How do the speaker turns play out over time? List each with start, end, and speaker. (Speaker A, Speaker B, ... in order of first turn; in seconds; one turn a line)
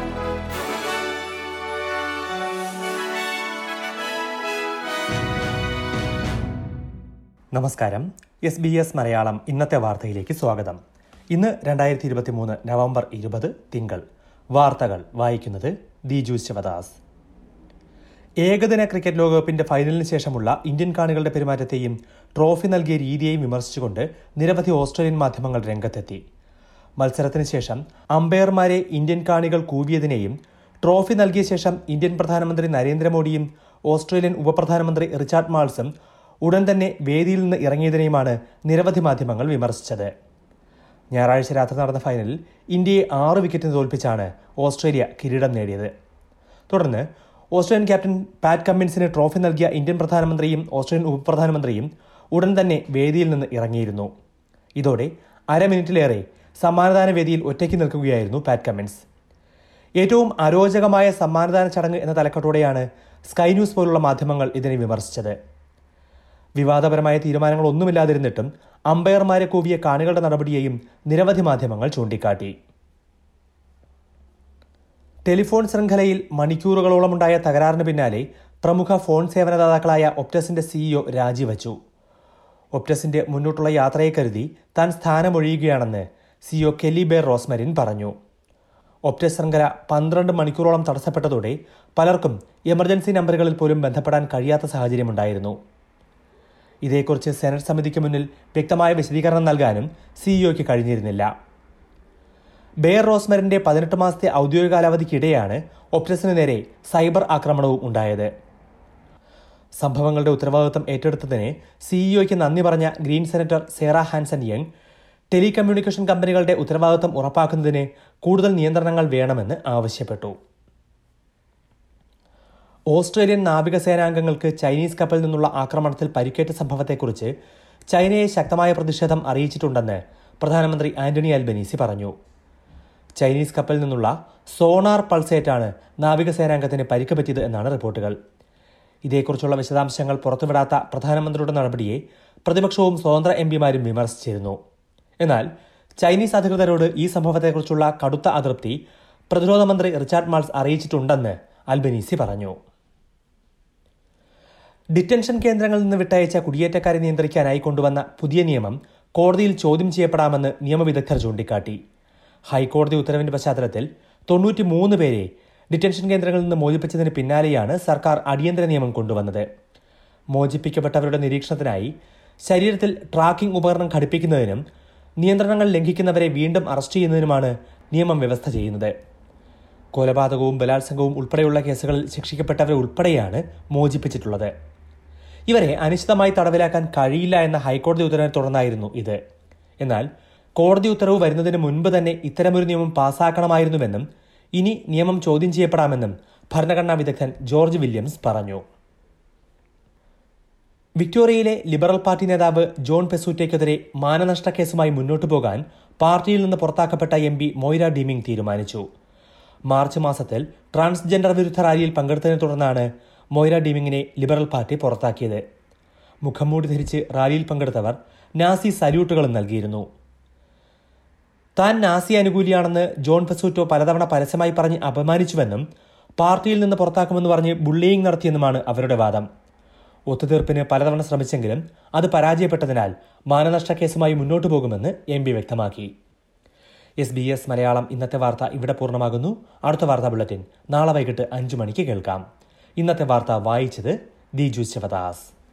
Speaker A: 7.5-10.8
Speaker A: 11.3-14.0
Speaker A: 14.5-17.0
Speaker A: 18.4-26.2
Speaker A: 27.0-35.9
Speaker A: 36.4-40.1
Speaker A: 41.1-45.9
Speaker A: 46.7-54.1
Speaker A: 54.8-59.0
Speaker A: 60.0-65.3
Speaker A: 66.6-72.5
Speaker A: 75.2-81.8
Speaker A: 82.7-88.1
Speaker A: 89.1-95.6
Speaker A: 96.8-101.3
Speaker A: 102.8-108.3
Speaker A: 109.8-114.7
Speaker A: 115.3-120.3
Speaker A: 122.9-127.3
Speaker A: 127.9-132.1
Speaker A: 133.2-138.1
Speaker A: 139.1-144.6
Speaker A: 145.2-145.5
Speaker A: 146.0-152.6
Speaker A: 154.9-161.8
Speaker A: 162.5-169.4
Speaker A: 170.3-171.9
Speaker A: 172.5-174.6
Speaker A: 175.2-178.9
Speaker A: 179.9-184.5
Speaker A: 185.5-189.2
Speaker A: 189.8-190.1
Speaker A: 190.6-194.0
Speaker A: 194.6-198.6
Speaker A: 201.0-208.8
Speaker A: 209.7-215.4
Speaker A: 216.2-219.8
Speaker A: 221.6-225.6
Speaker A: 226.2-229.2
Speaker A: 230.1-235.9
Speaker A: 237.0-242.2
Speaker A: 242.8-245.3